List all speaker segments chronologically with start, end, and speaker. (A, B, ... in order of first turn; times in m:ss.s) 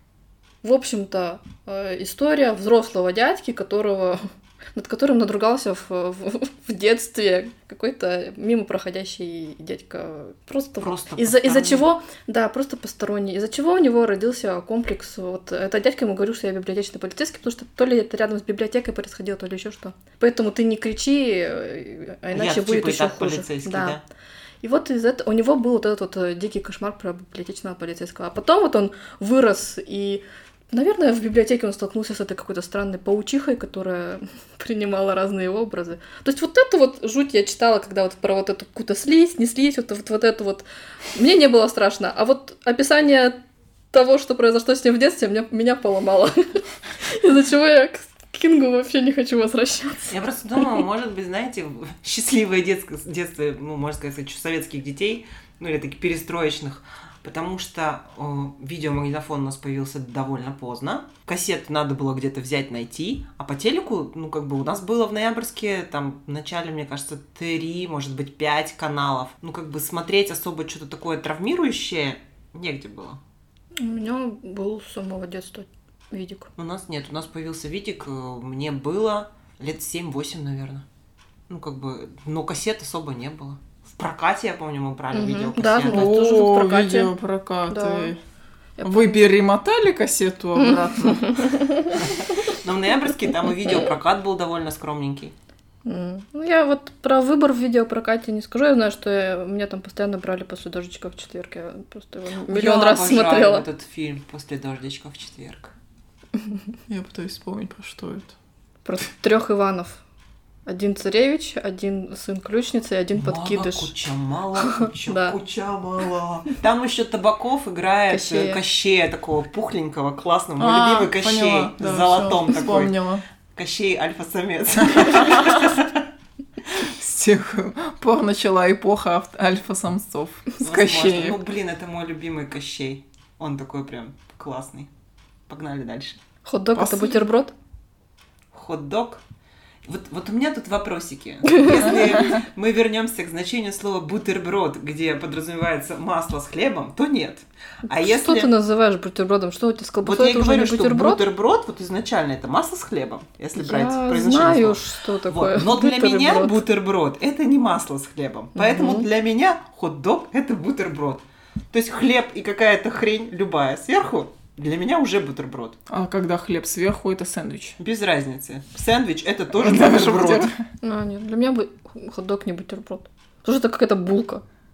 0:00.6-0:24.0 A
0:10.8-0:11.9 B
0:22.3-0:24.0 B
0:24.6-0:43.4 A
0:43.9-0:50.1 A
0:50.1-1:13.2 B
1:13.8-1:16.5 A
1:16.6-1:20.8 B
1:21.5-1:26.1 B
1:25.1-1:27.1 A
1:25.9-1:28.2 C
1:27.7-1:28.1 A
1:28.8-1:29.3 A
1:28.8-1:31.6 C
1:30.6-1:32.0 A
1:32.0-1:35.3 B
1:35.8-1:43.6 A
1:42.5-1:45.7 B
1:46.9-1:48.3 C
1:48.8-1:50.0 A
1:50.6-1:53.9 A
1:53.1-2:03.0 B
1:54.6-1:55.4 A
1:58.1-1:58.6 A
2:00.6-2:03.2 C
2:03.5-2:06.1 B
2:05.0-2:05.6 C
2:06.7-2:11.4 C
2:10.6-2:14.9 B
2:15.5-2:16.2 B
2:16.4-2:17.5 A
2:16.8-2:17.2 C
2:18.5-2:19.2 B
2:19.8-2:28.5 B
2:21.4-2:22.1 A
2:27.9-2:31.2 A
2:30.0-2:45.8 B
2:33.6-2:36.6 A
2:38.6-2:39.1 A
2:45.9-2:47.8 C
2:47.8-2:50.5 B
2:49.5-2:50.6 C
2:50.8-2:54.4 A